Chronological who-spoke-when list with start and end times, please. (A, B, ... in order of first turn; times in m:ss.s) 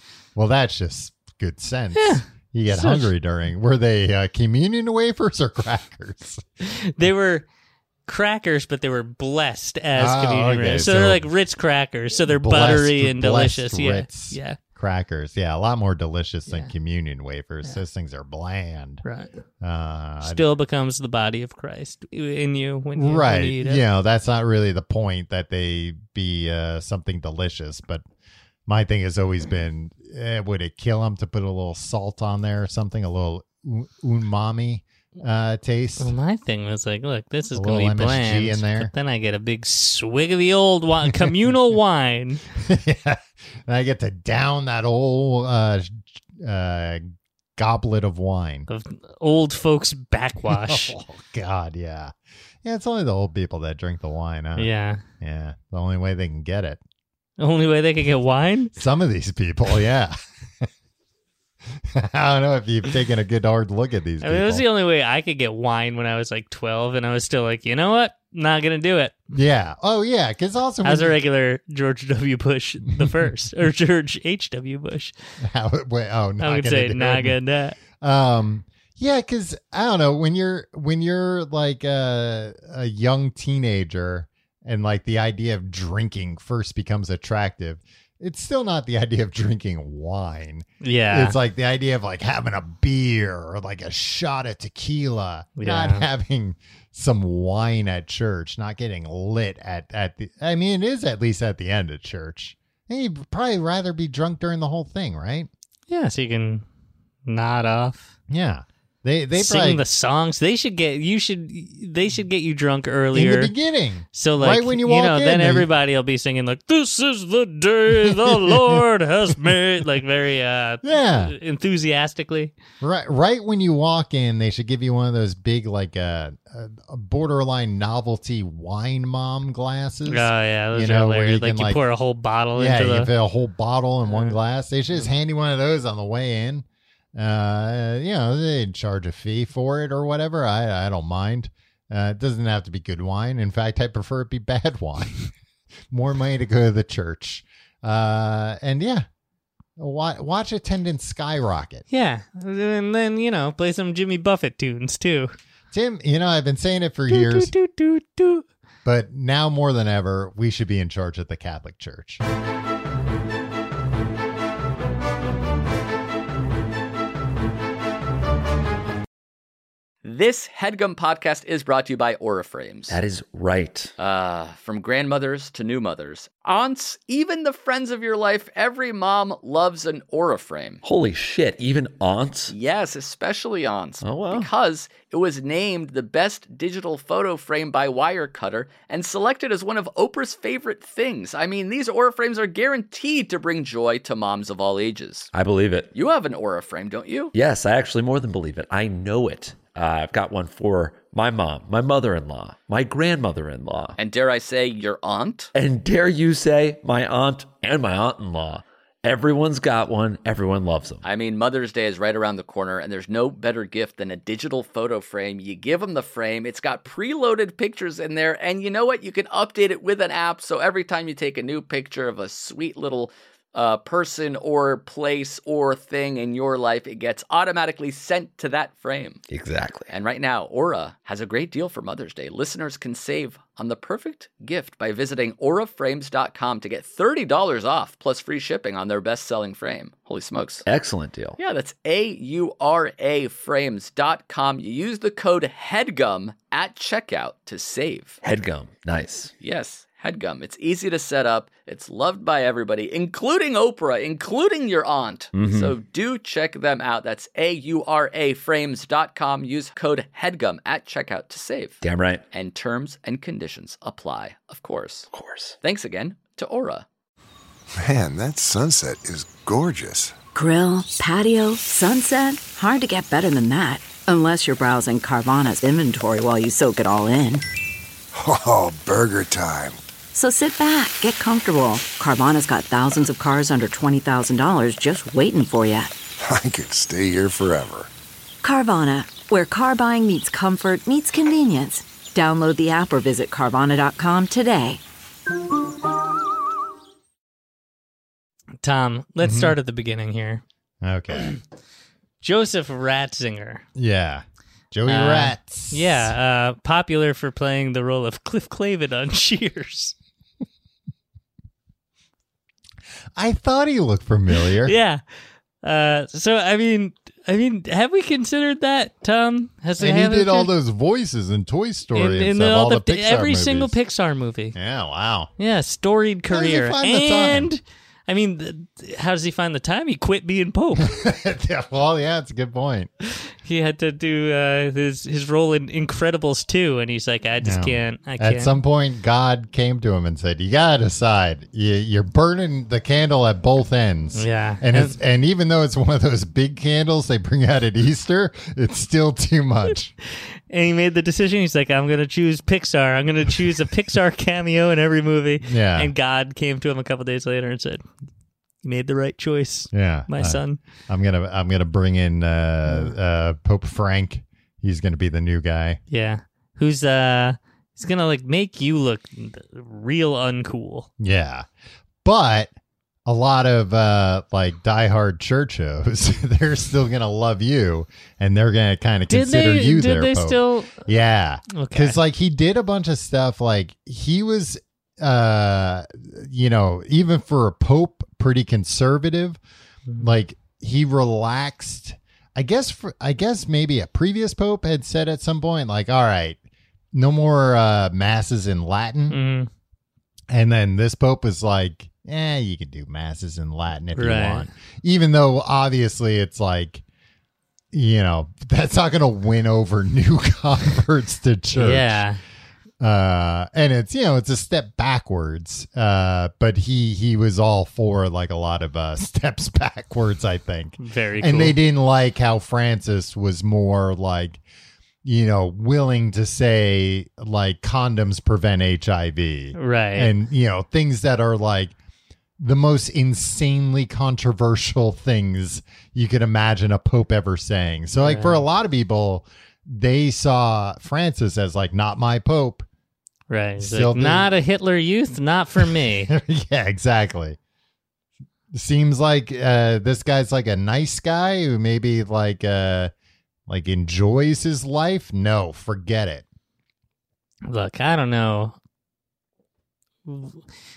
0:00.4-0:06.4 A
0:02.0-0:03.1 B
0:06.6-0:07.4 B
0:08.0-0:14.6 B
0:09.9-0:11.3 A
0:12.3-0:19.0 A
0:19.0-0:19.3 B
0:19.6-0:20.4 A
0:20.2-0:23.8 B
0:23.0-0:28.0 A
0:28.7-0:36.1 A
0:36.0-0:42.4 B
0:37.5-0:38.9 A
0:42.6-0:48.7 A
0:48.7-0:51.0 B
0:50.4-0:56.8 A
0:54.6-0:55.0 B
0:57.4-0:58.7 B
0:58.7-1:00.6 A
1:01.7-1:04.6 A
1:04.2-1:09.2 B
1:09.3-1:11.2 A
1:10.8-1:15.1 B
1:12.9-1:13.3 A
1:15.4-1:17.4 A
1:16.4-1:17.8 B
1:17.9-1:45.5 A
1:30.8-1:31.4 B
1:35.6-1:36.0 B
1:45.9-1:46.6 B
1:47.3-1:48.1 B
1:48.3-1:49.8 A
1:49.3-1:53.5 B
1:53.1-1:55.7 A
1:54.1-2:02.5 B
1:57.9-1:58.8 A
2:00.8-2:01.3 A
2:02.8-2:11.8 A
2:10.0-2:13.1 B
2:12.6-2:25.2 A
2:14.1-2:14.4 B
2:25.9-2:29.0 A
2:29.8-2:31.8 A
2:31.9-2:35.4 B
2:35.7-2:37.5 A
2:37.1-2:38.4 B
2:38.8-2:42.2 A
2:50.0-2:53.0 C
2:52.9-2:53.9 D
2:54.0-3:00.8 C
3:00.8-3:02.5 D
3:02.5-3:15.3 C
3:04.0-3:04.5 D
3:15.3-3:15.9 D
3:15.9-3:17.3 C
3:17.3-3:24.0 D
3:24.0-3:25.5 C
3:25.5-3:31.0 D
3:31.0-3:49.2 C
3:49.3-3:49.9 D
3:49.9-4:00.6 C
4:00.6-4:01.4 D
4:01.4-4:08.2 C
4:08.2-4:09.3 D
4:09.4-4:21.8 C
4:15.3-4:15.7 D
4:21.8-4:22.2 D
4:22.3-4:25.1 C
4:25.1-4:25.6 D
4:25.6-4:26.8 C
4:27.8-4:30.1 E
4:30.3-4:37.4 F
4:38.1-4:39.8 E
4:40.1-4:45.9 F
4:46.2-4:47.9 E
4:48.4-4:54.8 F
4:58.6-5:00.4 B
4:59.2-4:59.6 A
5:00.8-5:01.4 A
5:02.2-5:03.6 B
5:03.8-5:06.1 A
5:04.8-5:09.9 B
5:13.2-5:14.7 A
5:14.6-5:15.0 B
5:15.6-5:20.5 B
5:19.8-5:23.7 A
5:21.9-5:24.6 B
5:24.5-5:25.3 A
5:25.4-5:30.9 B
5:26.3-5:27.5 A
5:30.8-5:32.9 A
5:33.2-5:38.6 B
5:37.4-5:49.9 A
5:44.1-5:45.0 B
5:50.5-5:57.8 B
5:55.4-5:55.9 A
5:58.6-6:00.6 B
5:59.7-6:05.8 A
6:02.7-6:02.9 B
6:05.9-6:10.9 B
6:11.0-6:11.5 A
6:12.0-6:12.5 A
6:13.0-6:29.4 A
6:19.1-6:20.8 B
6:21.5-6:22.0 B
6:30.0-6:36.4 A
6:36.9-6:39.2 A
6:39.1-6:39.5 B
6:40.3-6:46.8 A
6:43.9-6:44.5 B
6:47.7-6:52.0 A
6:51.5-6:52.2 B
6:52.8-7:04.4 A
7:00.8-7:01.6 B
7:05.0-7:11.7 A
7:09.5-7:10.1 B
7:12.4-7:22.6 A
7:18.0-7:18.4 B
7:23.3-7:26.1 B
7:23.6-7:24.3 A
7:25.6-7:27.4 A
7:28.5-7:32.9 A
7:33.5-7:36.2 A
7:37.4-7:38.6 B
7:40.0-7:40.4 B